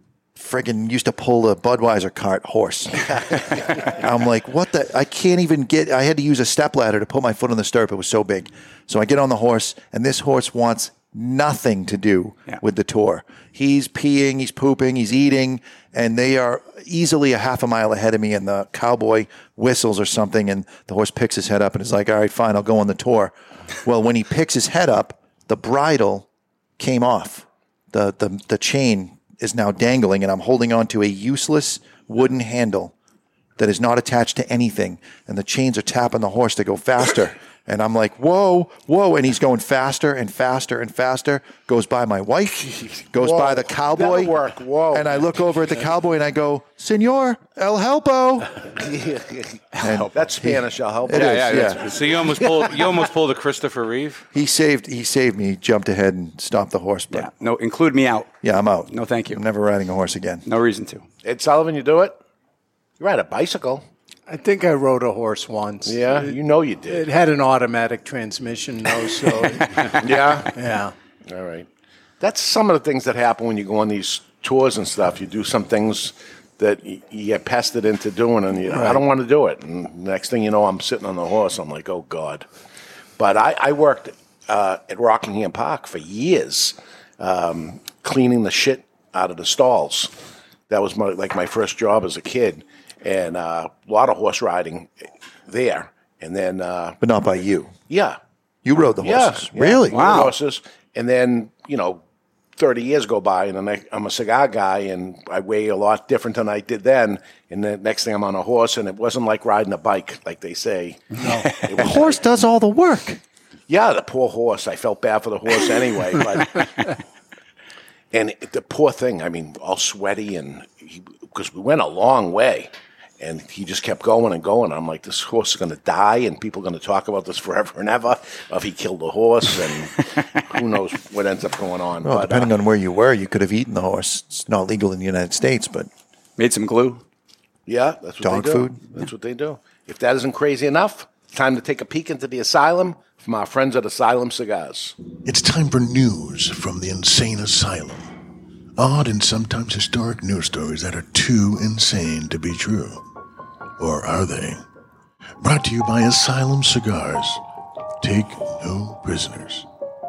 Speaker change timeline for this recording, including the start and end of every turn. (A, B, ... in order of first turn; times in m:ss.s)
0:00.4-0:26.3 A
0:26.8-0:32.9 A
0:33.6-0:44.4 A
0:43.1-0:45.3 B
0:44.9-0:48.6 A
0:48.8-0:52.8 B
0:49.8-0:51.8 A
0:51.1-0:54.2 C
0:54.3-0:57.3 A
0:57.1-0:58.3 D
0:58.4-1:00.4 A
0:58.9-0:59.4 D
1:00.4-1:01.0 D
1:01.2-1:02.2 B
1:03.0-1:03.8 B
1:04.3-1:06.4 E
1:05.8-1:07.1 B
1:06.9-1:10.0 E
1:10.0-1:10.6 B
1:10.5-1:10.9 E
1:11.3-1:11.7 B
1:12.2-1:22.4 B
1:18.7-1:19.0 E
1:23.2-1:30.1 B
1:30.7-1:34.9 B
1:35.5-1:37.0 B
1:37.0-1:37.7 A
1:37.9-1:38.2 B
1:38.6-1:40.2 A
1:39.0-1:42.0 B
1:39.9-1:40.3 D
1:42.6-1:52.2 B
1:51.7-1:53.2 A
1:53.7-1:56.9 B
1:58.1-2:12.5 B
2:12.0-2:15.9 A
2:16.4-2:17.0 D
2:17.7-2:24.9 B
2:18.2-2:18.8 A
2:25.2-2:28.1 F
2:28.8-2:33.0 F
2:33.8-2:34.6 F
2:35.4-2:37.4 F
2:38.0-2:39.6 F